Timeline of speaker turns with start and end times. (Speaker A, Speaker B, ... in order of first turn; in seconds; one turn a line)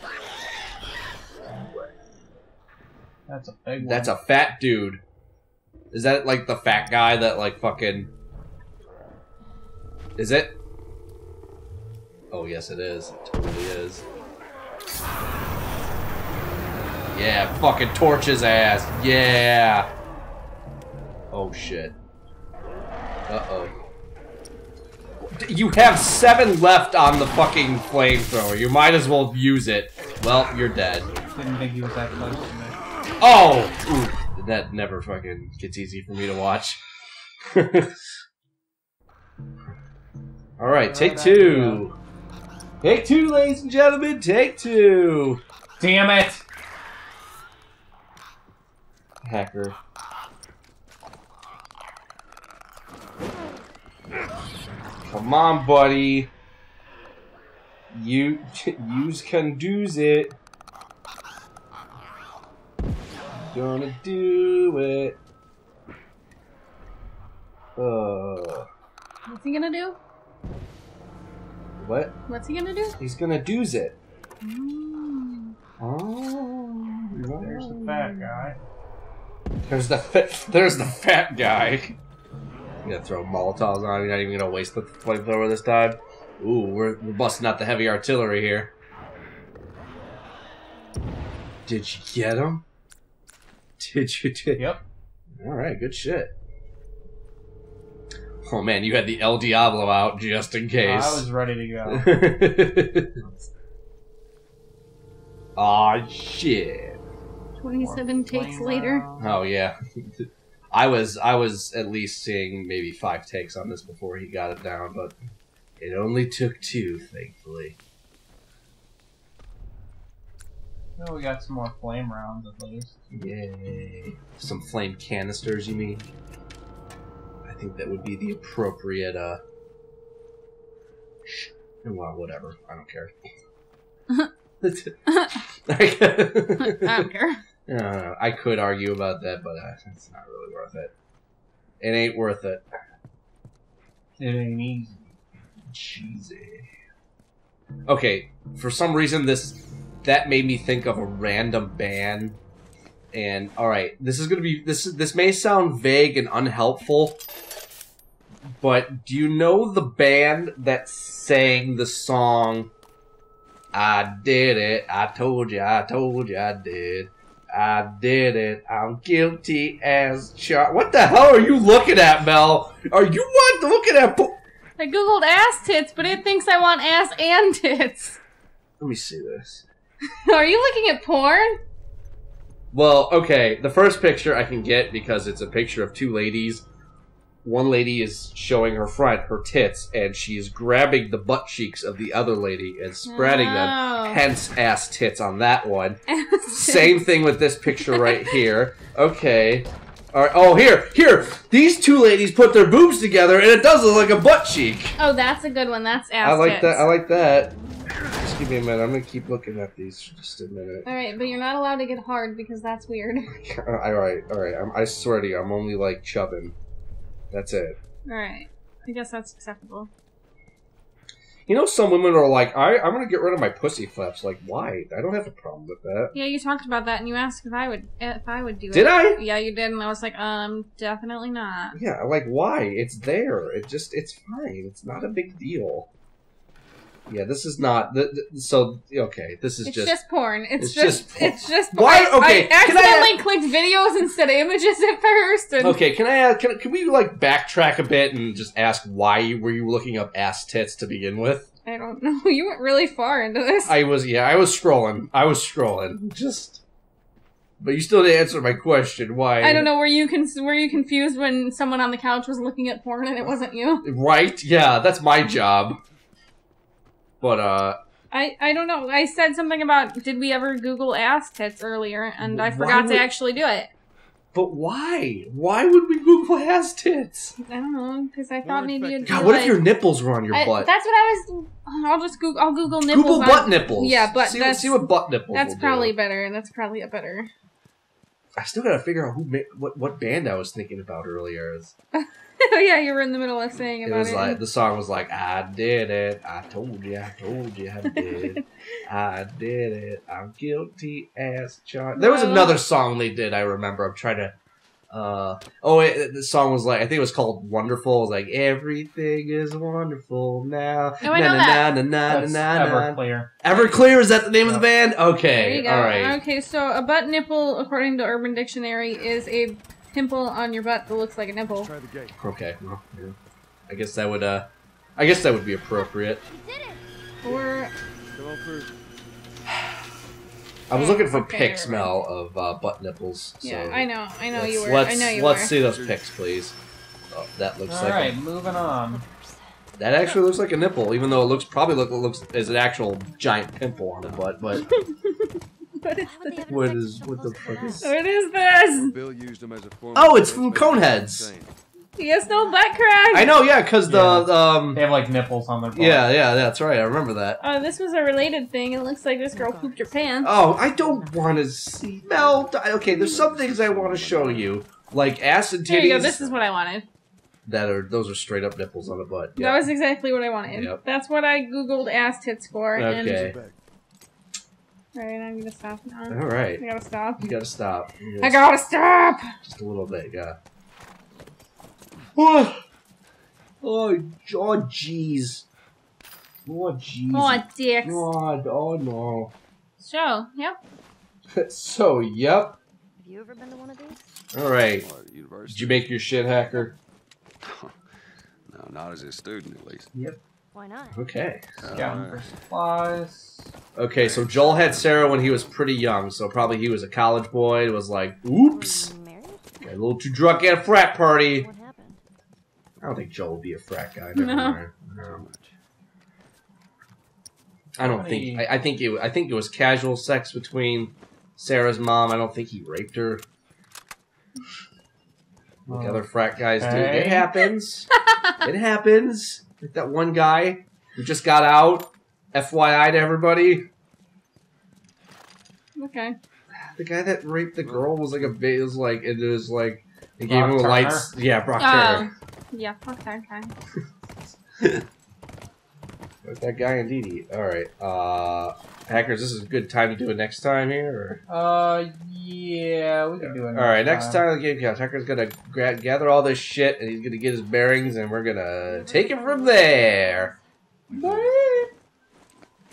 Speaker A: 1.6-1.9
Speaker B: 3.3-4.2
Speaker A: 3.8-5.0
Speaker A: 5.9-8.1
Speaker A: 10.2-10.6
Speaker A: 12.3-14.0
Speaker A: 17.1-19.9
Speaker A: 21.3-21.9
Speaker A: 23.3-23.7
Speaker A: 25.4-31.1
Speaker B: 31.2-32.8
Speaker A: 33.2-36.8
Speaker A: 37.5-38.0
Speaker A: 40.6-41.9
Speaker B: 40.8-41.9
Speaker A: 42.8-45.4
Speaker B: 45.8-46.4
Speaker A: 49.2-49.8
Speaker A: 55.0-56.3
Speaker A: 57.9-60.3
Speaker A: 63.3-65.2
Speaker A: 67.8-68.7
Speaker C: 69.3-70.0
Speaker A: 71.8-72.1
Speaker C: 72.3-73.0
Speaker A: 73.0-74.0
Speaker C: 74.4-75.5
Speaker A: 75.8-78.5
Speaker B: 77.4-78.6
Speaker A: 79.6-82.0
Speaker A: 82.8-88.7
Speaker A: 91.7-92.6
Speaker A: 93.8-94.7
Speaker A: 95.4-96.3
Speaker A: 98.5-101.3
Speaker B: 100.8-102.3
Speaker A: 101.9-103.2
Speaker A: 105.6-107.0
Speaker C: 107.6-109.0
Speaker B: 107.8-109.4
Speaker A: 109.2-115.1
Speaker A: 115.8-117.8
Speaker B: 121.0-123.0
Speaker A: 123.1-126.1
Speaker A: 127.5-129.4
Speaker A: 131.3-133.1
Speaker A: 134.6-135.0
Speaker C: 135.1-135.4
Speaker A: 135.7-137.1
Speaker C: 136.6-137.4
Speaker A: 137.7-140.9
Speaker A: 141.8-142.6
Speaker B: 144.2-145.1
Speaker A: 145.7-146.7
Speaker A: 147.9-152.4
Speaker A: 153.1-157.2
Speaker A: 158.6-162.7
Speaker A: 163.7-174.4
Speaker C: 174.8-178.2
Speaker A: 178.8-179.7
Speaker C: 180.2-181.6
Speaker A: 182.7-186.7
Speaker A: 187.4-205.0
Speaker C: 193.1-194.2
Speaker C: 196.1-197.0
Speaker C: 197.8-198.4
Speaker C: 205.0-206.9
Speaker A: 206.2-210.9
Speaker C: 210.8-213.3
Speaker A: 213.3-216.6
Speaker A: 217.3-217.8
Speaker C: 218.1-219.9
Speaker A: 221.5-226.2
Speaker C: 226.1-231.8
Speaker A: 228.7-229.2
Speaker A: 231.7-235.9
Speaker A: 237.1-240.0
Speaker C: 239.7-245.8
Speaker A: 240.6-243.2
Speaker A: 245.6-251.5
Speaker C: 251.7-253.8
Speaker A: 253.7-256.6
Speaker A: 257.6-259.7
Speaker C: 259.4-263.9
Speaker A: 263.8-265.8
Speaker A: 267.2-267.8
Speaker C: 268.1-273.7
Speaker A: 272.2-273.1
Speaker A: 274.3-277.4
Speaker C: 277.4-279.6
Speaker D: 278.4-279.4
Speaker A: 279.1-280.7
Speaker C: 280.3-287.3
Speaker A: 282.8-285.9
Speaker A: 288.4-291.7
Speaker C: 291.9-294.4
Speaker A: 293.9-304.4
Speaker C: 297.9-298.4
Speaker C: 301.9-302.6
Speaker A: 304.9-316.2
Speaker C: 311.0-311.8
Speaker B: 312.1-313.4
Speaker B: 314.4-314.7
Speaker C: 315.4-321.7
Speaker D: 321.5-322.2
Speaker A: 322.1-323.2
Speaker A: 323.7-326.2
Speaker E: 326.2-326.8
Speaker C: 327.2-327.7
Speaker D: 328.1-328.7
Speaker A: 330.7-336.6
Speaker C: 330.7-331.9
Speaker C: 333.4-335.6
Speaker D: 335.6-336.3
Speaker A: 337.1-338.2
Speaker B: 337.7-339.1
Speaker E: 338.4-339.5
Speaker A: 339.8-344.7
Speaker D: 344.0-344.7
Speaker C: 344.9-345.3
Speaker C: 345.8-346.4
Speaker E: 345.9-348.4
Speaker A: 346.5-347.9
Speaker C: 347.8-348.9
Speaker D: 348.7-351.6
Speaker A: 349.9-351.3
Speaker C: 352.0-353.3
Speaker E: 352.2-353.4
Speaker A: 353.1-354.9
Speaker B: 353.9-356.2
Speaker A: 355.7-357.4
Speaker C: 357.4-360.3
Speaker E: 359.3-361.5
Speaker A: 360.2-366.4
Speaker D: 362.1-364.6
Speaker C: 365.7-366.9
Speaker A: 367.5-369.7
Speaker C: 369.4-373.3
Speaker A: 370.5-370.8
Speaker A: 372.8-373.4
Speaker D: 372.9-373.6
Speaker C: 374.9-377.3
Speaker A: 376.1-376.6
Speaker A: 377.2-378.4
Speaker C: 378.2-379.3
Speaker A: 379.4-380.4
Speaker A: 382.2-382.6
Speaker A: 383.6-385.5
Speaker A: 386.5-389.3
Speaker C: 387.1-388.1
Speaker C: 389.8-390.6
Speaker A: 391.4-392.6
Speaker E: 393.0-394.1
Speaker A: 394.3-394.9
Speaker D: 394.8-396.0
Speaker A: 395.5-396.8
Speaker D: 397.4-397.8
Speaker D: 398.5-399.9
Speaker B: 399.9-400.2
Speaker E: 400.5-401.0
Speaker A: 400.9-401.9
Speaker D: 401.6-402.4
Speaker B: 401.7-403.5
Speaker A: 403.8-408.9
Speaker D: 403.9-405.4
Speaker E: 408.4-409.6
Speaker A: 409.6-411.5
Speaker E: 411.1-412.0
Speaker A: 412.8-415.3
Speaker C: 414.1-414.6
Speaker D: 415.0-415.5
Speaker A: 417.8-423.2
Speaker B: 417.8-418.5
Speaker A: 425.7-427.9
Speaker B: 425.7-426.1
Speaker B: 426.6-427.5
Speaker A: 428.4-433.7
Speaker C: 435.8-436.2
Speaker A: 436.8-442.1
Speaker D: 437.6-438.4
Speaker B: 440.3-441.1
Speaker C: 441.6-443.5
Speaker A: 446.2-451.2
Speaker B: 451.3-454.2
Speaker A: 453.2-460.3
Speaker E: 458.6-460.4
Speaker D: 460.9-461.4
Speaker A: 460.9-461.7